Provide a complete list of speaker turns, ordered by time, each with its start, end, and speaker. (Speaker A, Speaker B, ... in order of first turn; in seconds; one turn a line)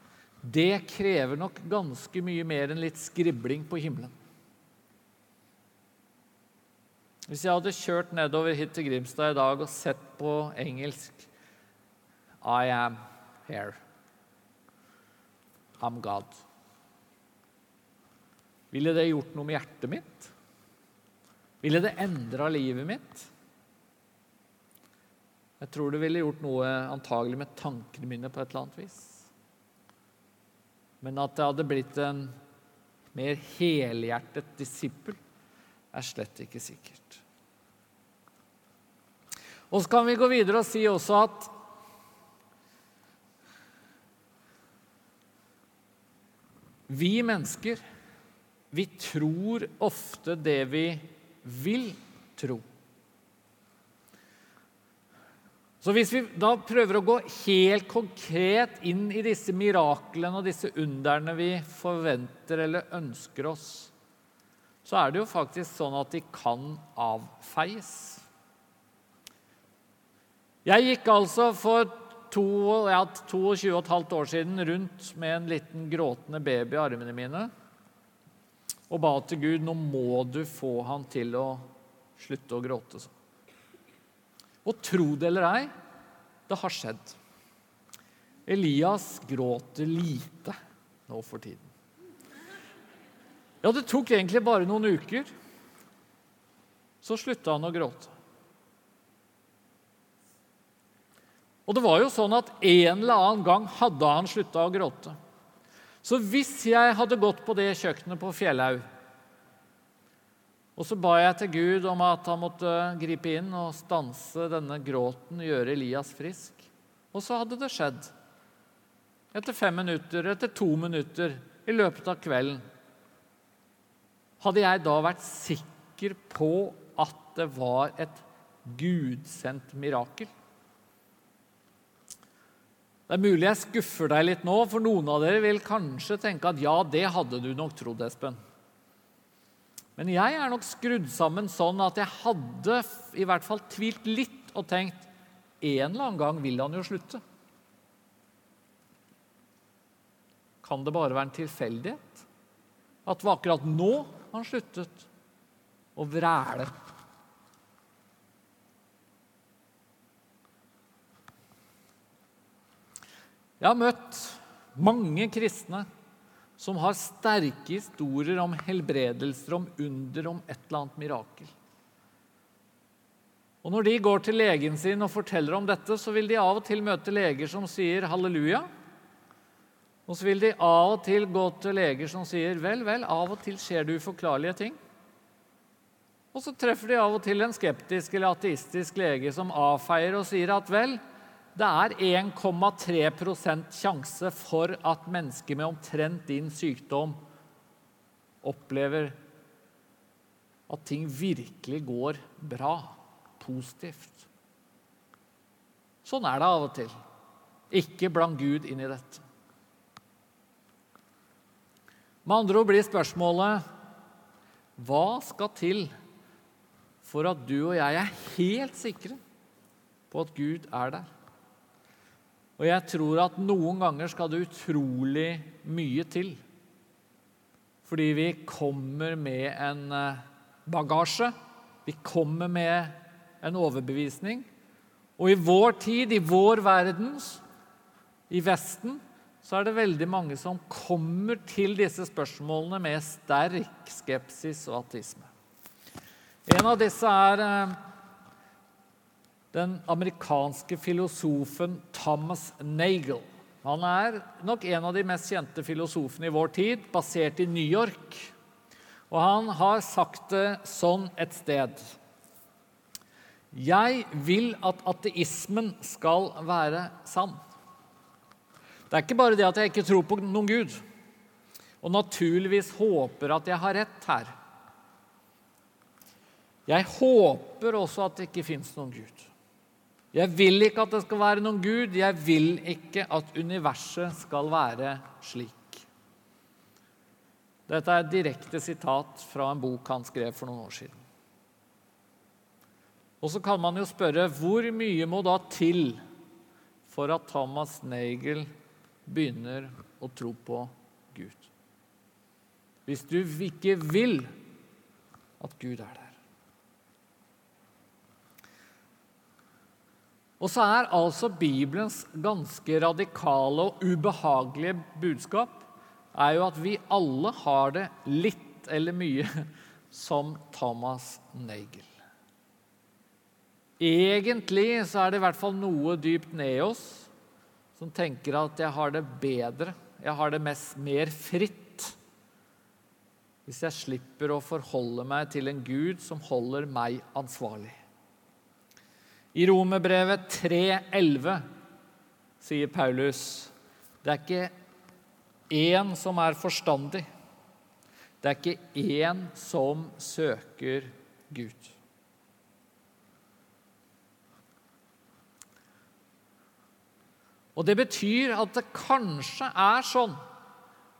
Speaker A: 0.4-4.1
Speaker A: 7.3-11.3
Speaker A: 12.4-13.8
Speaker A: 15.8-16.4
Speaker A: 18.7-20.3
Speaker A: 21.6-23.3
Speaker A: 25.6-29.3
Speaker A: 31.0-32.3
Speaker A: 33.1-35.2
Speaker A: 35.9-37.2
Speaker A: 39.7-41.5
Speaker A: 46.9-47.8
Speaker A: 48.7-52.6
Speaker A: 55.8-63.9
Speaker A: 64.8-68.2
Speaker A: 70.6-77.5
Speaker A: 78.9-81.6
Speaker A: 82.2-83.1
Speaker A: 84.6-85.7
Speaker A: 86.5-87.2
Speaker A: 88.5-91.7
Speaker A: 93.6-95.3
Speaker A: 97.0-98.1
Speaker A: 101.7-105.1
Speaker A: 106.0-108.8
Speaker A: 110.8-118.1
Speaker A: 119.3-122.6
Speaker A: 124.4-130.3
Speaker A: 133.1-138.4
Speaker A: 140.0-145.1
Speaker A: 145.6-147.2
Speaker A: 150.6-152.2
Speaker A: 153.0-155.1
Speaker A: 155.9-156.7
Speaker A: 163.6-165.8
Speaker A: 166.6-171.5
Speaker A: 173.6-178.7
Speaker A: 180.1-184.8
Speaker A: 186.3-191.0
Speaker A: 191.5-197.2
Speaker A: 198.4-199.2
Speaker A: 200.7-204.3
Speaker A: 206.0-206.9
Speaker A: 207.7-209.2
Speaker A: 212.2-213.6
Speaker A: 214.8-215.9
Speaker A: 217.0-219.2
Speaker A: 220.1-221.1
Speaker A: 222.6-226.4
Speaker A: 227.8-231.3
Speaker A: 231.8-234.4
Speaker A: 235.2-237.4
Speaker A: 238.3-245.3
Speaker A: 246.5-247.8
Speaker A: 249.5-258.3
Speaker A: 259.1-261.9
Speaker A: 263.5-267.4
Speaker A: 268.9-270.8
Speaker A: 271.8-274.3
Speaker A: 276.7-279.3
Speaker A: 280.1-285.9
Speaker A: 287.7-291.0
Speaker A: 293.2-296.0
Speaker A: 296.9-298.5
Speaker A: 299.1-301.5
Speaker A: 302.9-304.3
Speaker A: 305.4-306.2
Speaker A: 310.4-321.9
Speaker A: 323.8-327.1
Speaker A: 327.8-331.9
Speaker A: 333.4-337.8
Speaker A: 339.3-341.4
Speaker A: 342.4-343.5
Speaker A: 344.0-344.5
Speaker A: 345.5-347.0
Speaker A: 348.2-351.8
Speaker A: 357.6-360.2